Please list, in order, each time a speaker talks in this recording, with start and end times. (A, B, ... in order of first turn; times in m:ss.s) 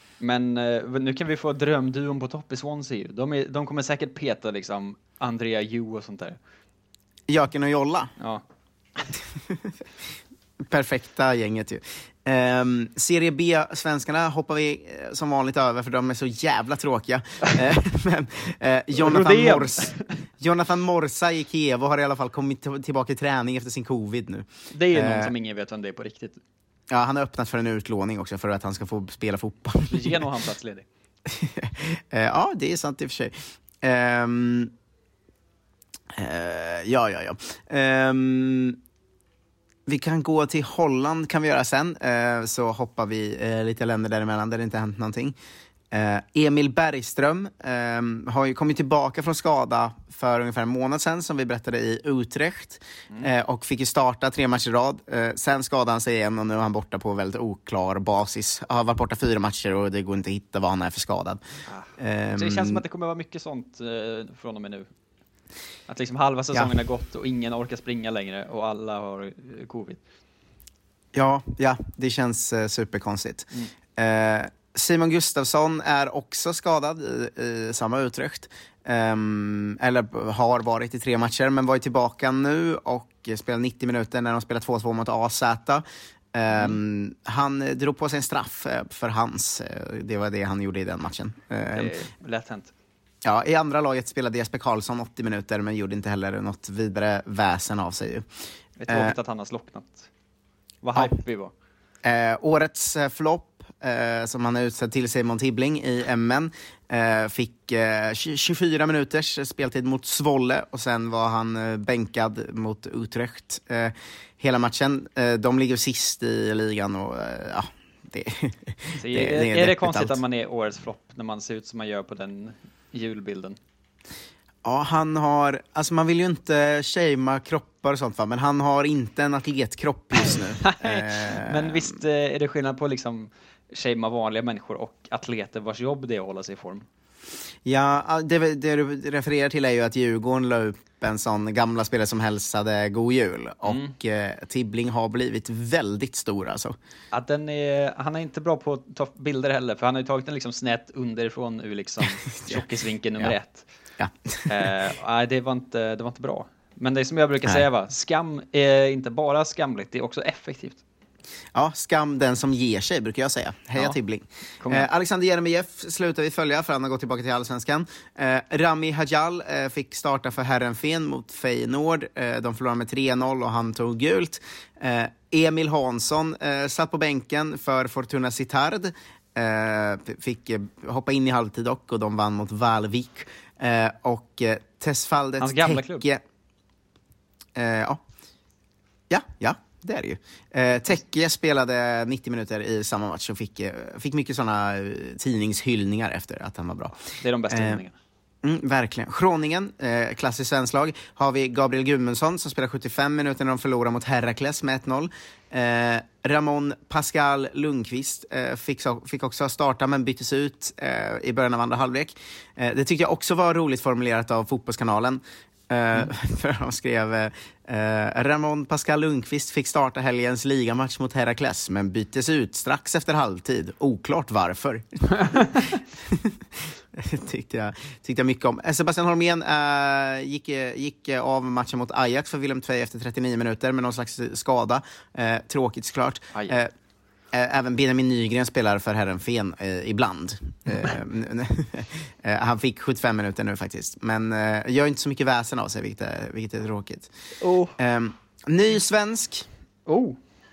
0:00.2-0:06.4 A
0:07.3-0:08.1 B
0:10.6-0:25.3 B
0:19.0-0:20.0 A
0:24.7-0:26.4 A
0:26.9-0:30.2 B
0:29.9-0:30.9 A
0:31.3-0:34.7 B
0:36.1-0:38.8 B
0:39.9-0:45.4 B
0:45.9-1:01.4 B
1:01.7-1:04.9 A
1:02.0-1:02.8 B
1:05.9-1:10.0 A
1:11.1-1:31.9 B
1:26.5-1:26.8 A
1:31.7-1:32.7 A
1:33.2-1:38.3 B
1:38.8-1:40.1 A
1:38.9-1:39.1 B
1:40.8-1:41.5 A
1:42.0-2:00.2 B
1:59.0-2:03.6 A
2:04.6-2:11.9 B
2:10.2-2:16.9 A
2:17.6-2:26.8 B
2:23.6-2:23.9 A
2:27.1-2:33.7 A
2:32.4-2:32.6 B
2:34.0-2:34.5 B
2:34.5-2:40.8 A
2:41.5-3:06.2 B
2:44.6-2:44.9 A
3:05.4-3:06.1 A
3:07.6-3:08.0 B
3:09.1-3:17.0 B
3:17.0-3:18.0 A
3:17.5-3:17.8 B
3:18.4-3:46.4 B
3:46.9-3:56.7 B
3:57.3-4:07.1 B
4:07.4-4:07.8 A
4:07.8-4:09.5 B
4:09.9-4:10.2 A